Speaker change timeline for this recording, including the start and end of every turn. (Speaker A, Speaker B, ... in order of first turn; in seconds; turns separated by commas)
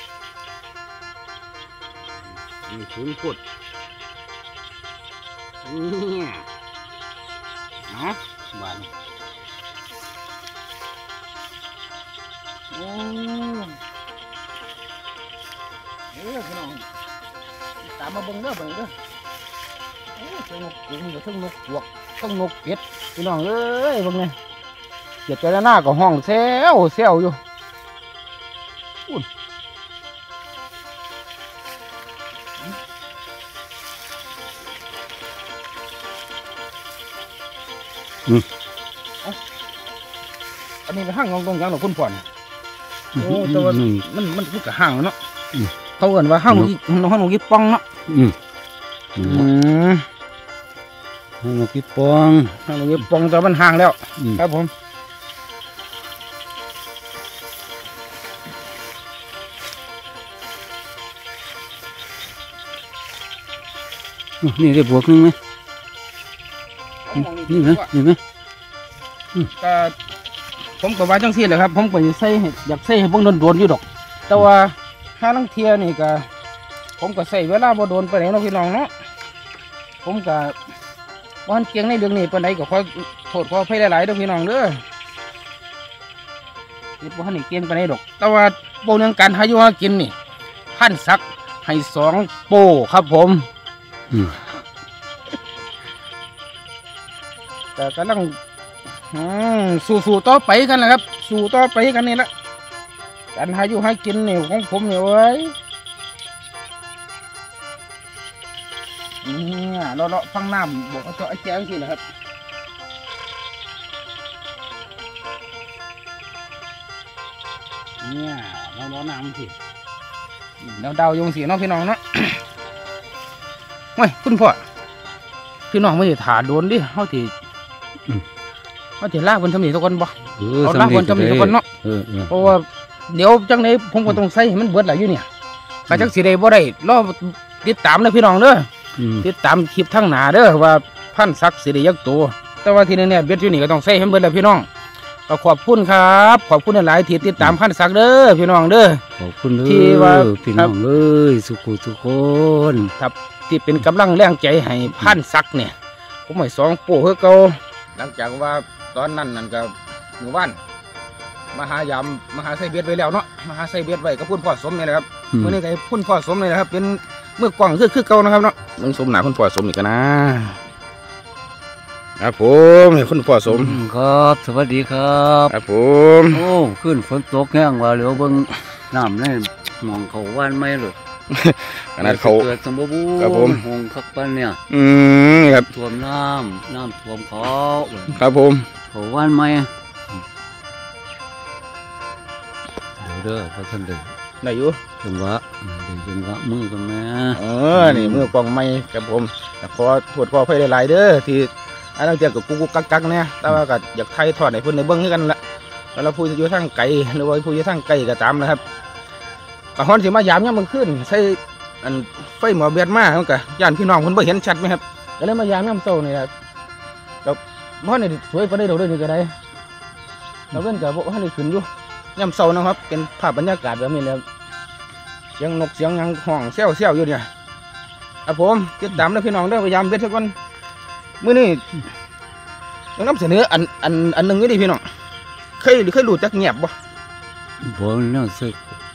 Speaker A: 2.7-3.4, Speaker A: 5.6-6.5, Speaker A: 7.9-8.9, Speaker A: 12.7-13.8, Speaker A: 16.1-16.9, Speaker A: 17.8-18.9, Speaker A: 20.1-24.4, Speaker A: 25.3-27.4, Speaker A: 40.9-42.3, Speaker B: 43.1-44.0, Speaker A: 43.2-45.2, Speaker A: 46.0-47.8, Speaker B: 48.1-48.4, Speaker B: 49.2-49.5, Speaker A: 49.2-50.1, Speaker B: 51.4-52.6, Speaker A: 52.7-54.7, Speaker B: 64.4-65.4, Speaker A: 67.1-67.9, Speaker B: 67.5-68.2, Speaker A: 69.6-70.0, Speaker A: 70.8-76.3, Speaker A: 77.0-78.9, Speaker A: 80.0-80.6, Speaker A: 81.5-84.8, Speaker A: 87.0-90.1, Speaker A: 90.7-93.5, Speaker B: 94.1-94.4, Speaker A: 97.8-98.4, Speaker A: 99.1-102.3, Speaker A: 103.3-105.5, Speaker A: 109.2-112.0, Speaker A: 118.0-119.5, Speaker A: 120.6-122.4, Speaker A: 124.0-124.6, Speaker A: 125.7-127.3, Speaker A: 129.0-131.7, Speaker B: 130.4-132.5, Speaker A: 132.3-135.3, Speaker A: 135.9-138.7, Speaker B: 139.0-139.3, Speaker A: 139.2-144.7, Speaker A: 145.3-149.0, Speaker B: 149.2-152.9, Speaker A: 149.7-150.7, Speaker A: 153.0-155.8, Speaker A: 156.3-160.6, Speaker A: 161.5-170.6, Speaker B: 165.3-165.6, Speaker A: 172.2-173.8, Speaker B: 173.5-175.6, Speaker A: 175.5-176.4, Speaker B: 176.3-181.0, Speaker A: 181.3-182.5, Speaker B: 182.0-184.6, Speaker A: 183.2-183.6, Speaker A: 184.7-185.7, Speaker B: 185.7-188.2, Speaker A: 188.1-188.7, Speaker B: 188.9-190.3, Speaker B: 193.0-194.2, Speaker A: 194.4-194.8, Speaker B: 195.0-198.3, Speaker A: 197.3-205.4, Speaker A: 205.9-208.6, Speaker A: 209.8-216.3, Speaker A: 217.2-219.4, Speaker A: 220.5-224.2, Speaker A: 225.4-227.3, Speaker A: 228.3-230.3, Speaker A: 231.2-231.7, Speaker A: 233.0-234.8, Speaker A: 235.6-236.8, Speaker B: 237.6-238.8